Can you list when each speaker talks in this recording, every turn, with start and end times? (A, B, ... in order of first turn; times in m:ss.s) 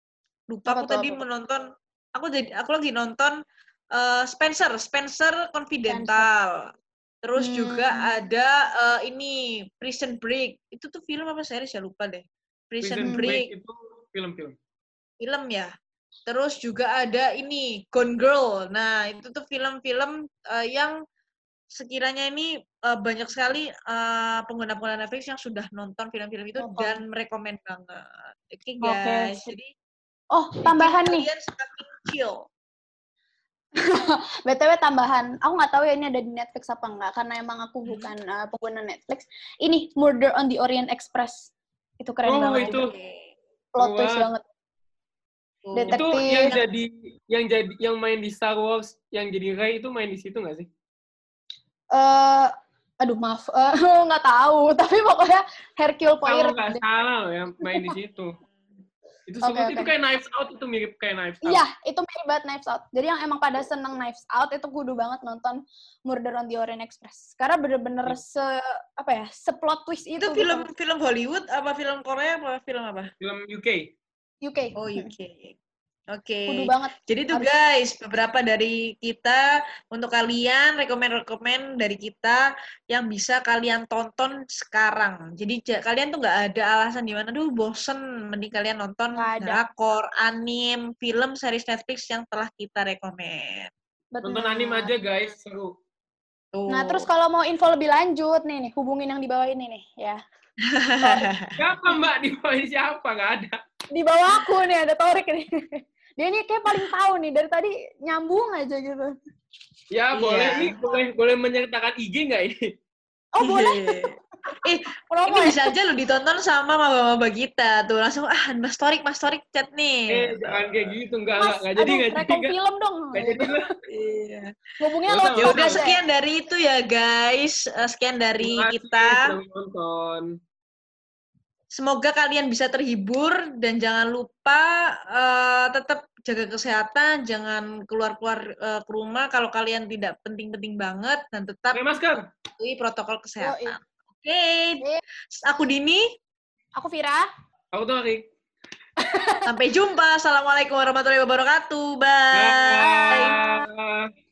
0:00.5-0:03.4 A
0:00.7-0:01.2 B
0:03.9-0:06.6 A
0:05.9-0:06.3 B
0:07.2-0:13.5 A
0:07.4-0:08.1 B
0:12.8-0:14.6 C
0:13.0-0:13.3 B
0:15.2-0:15.7 A
0:16.3-0:21.0 A
0:21.7-0:29.7 A
0:26.6-0:27.0 B
0:28.8-0:29.5 B
0:30.3-0:31.3 B
0:30.6-0:32.4 A
0:33.8-0:42.9 B
0:42.2-0:42.9 C
0:42.6-0:43.3 A
0:43.7-0:44.4 B
0:43.8-0:44.3 C
0:45.6-0:46.6 A
0:45.7-0:46.6 B
0:45.9-0:50.7 C
0:51.9-0:56.8 B
0:56.2-0:58.4 C
0:59.3-1:01.6 C
0:59.4-0:59.9 B
1:01.4-1:10.7 B
1:10.2-1:13.1 A
1:13.2-1:13.9 C
1:14.4-1:15.1 B
1:14.8-1:15.6 A
1:16.1-1:33.7 A
1:16.5-1:17.5 B
1:29.1-1:29.6 B
1:34.1-1:34.9 B
1:34.2-1:35.7 C
1:36.5-1:37.1 A
1:36.7-1:40.2 B
1:40.7-1:41.6 A
1:41.6-1:43.6 C
1:43.9-1:49.1 B
1:49.9-1:52.6 C
1:50.1-1:50.8 A
1:53.4-1:55.7 B
1:53.4-2:01.0 A
2:00.1-2:02.5 C
2:01.4-2:03.6 B
2:03.1-2:03.7 C
2:03.9-2:04.6 A
2:04.8-2:06.0 B
2:05.1-2:05.9 C
2:05.4-2:09.3 A
2:08.4-2:10.4 C
2:11.7-2:21.8 A
2:21.7-2:22.2 C
2:22.6-2:24.8 A
2:23.4-2:23.8 B
2:25.4-2:26.0 A
2:26.8-2:27.2 B
2:27.7-2:28.3 C
2:29.0-2:29.5 B
2:29.5-2:33.4 A
2:32.3-2:34.1 C
2:32.8-2:33.6 B